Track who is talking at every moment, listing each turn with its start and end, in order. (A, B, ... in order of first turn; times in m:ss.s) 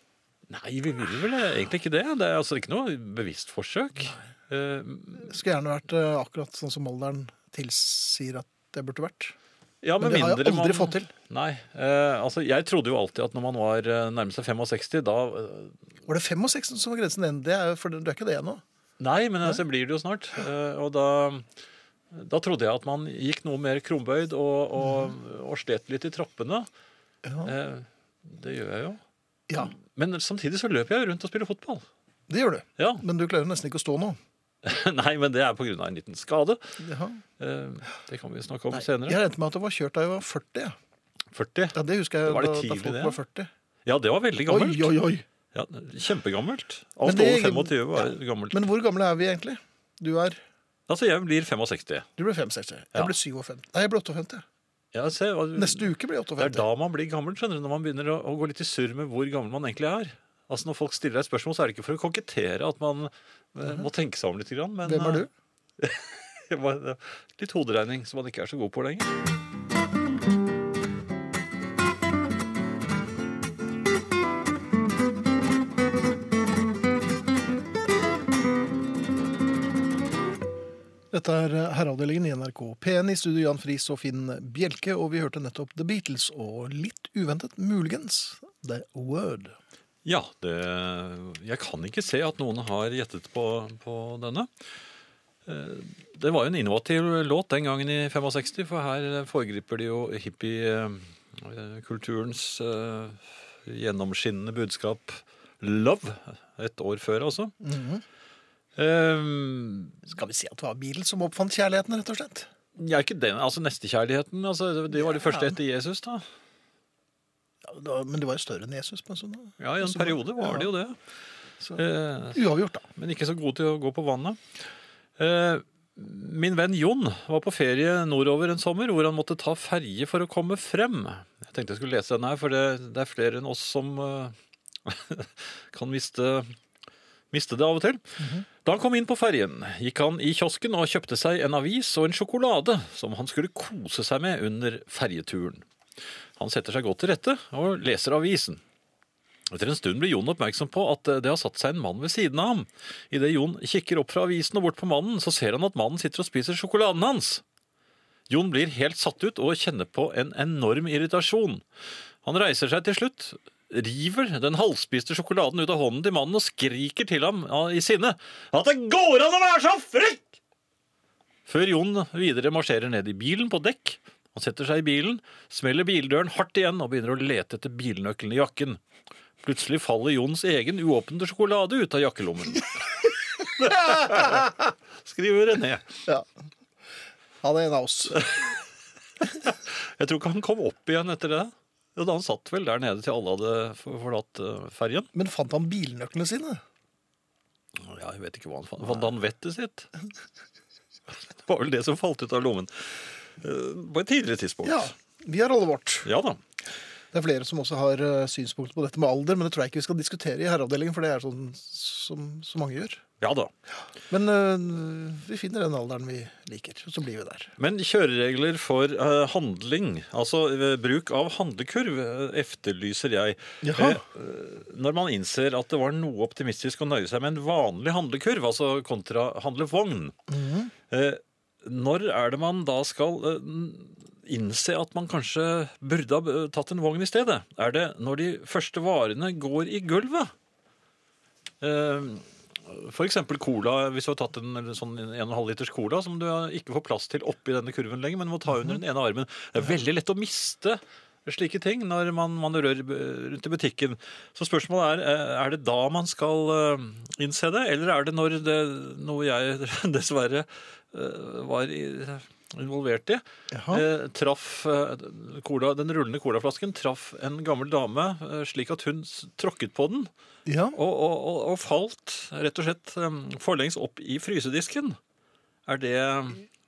0:00.5-0:05.3 A
0:05.2-0:09.3 B
0:09.8-0:15.7 A
0:10.0-0:11.1 B
0:16.0-0:18.6 B
0:19.0-0:21.4 A
0:22.1-0:26.7 A
0:24.8-0:25.1 B
0:27.2-0:27.5 B
0:27.4-0:29.0 A
0:29.6-0:31.8 A
0:32.3-0:34.2 B
0:32.8-0:33.0 A
0:34.6-0:36.6 A
0:36.8-0:37.2 B
0:37.4-0:39.2 A
0:38.7-0:40.8 B
0:41.3-0:43.2 A
0:41.7-0:43.5 B
0:43.8-0:44.9 A
0:44.5-0:45.2 B
0:45.5-0:48.6 A
0:47.0-0:50.4 B
0:50.9-0:52.1 A
0:52.2-0:54.4 B
0:54.9-1:05.3 A
0:55.6-0:56.6 B
1:04.8-1:05.3 B
1:05.8-1:09.1 A
1:21.1-1:29.6 B
1:30.0-1:34.5 A
1:35.4-1:47.5 A
1:47.6-1:48.0 B
1:48.8-1:50.0 A
1:50.0-1:52.5 B
1:52.8-1:56.2 A
1:54.9-1:55.6 B
1:57.6-2:00.7 B
1:59.6-2:01.0 A
2:01.6-2:02.8 B
2:01.8-2:02.4 A
2:03.0-2:04.4 A
2:05.2-2:14.3 A
2:14.8-2:16.5 A
2:17.3-2:25.6 A
2:26.4-2:28.6 A
2:29.5-2:37.4 A
2:38.3-2:41.6 A
2:42.2-2:50.4 A
2:51.4-2:58.8 A
2:59.4-3:06.0 A
3:03.8-3:04.3 B
3:07.4-3:08.2 B
3:08.2-3:08.5 A
3:09.2-3:15.1 A
3:15.1-3:16.6 B
3:17.8-3:19.9 A
3:21.4-3:24.9 A
3:24.6-3:26.1 B
3:26.0-3:26.4 A
3:27.1-3:33.0 B
3:33.2-3:33.5 A
3:34.1-3:37.5 B
3:37.6-3:50.1 A
3:43.6-3:44.0 B
3:50.3-3:50.7 B
3:50.9-4:00.3 A
4:01.6-4:30.1 A
4:23.5-4:23.8 B
4:30.4-4:30.8 B
4:30.7-4:35.0 A
4:35.7-4:36.4 A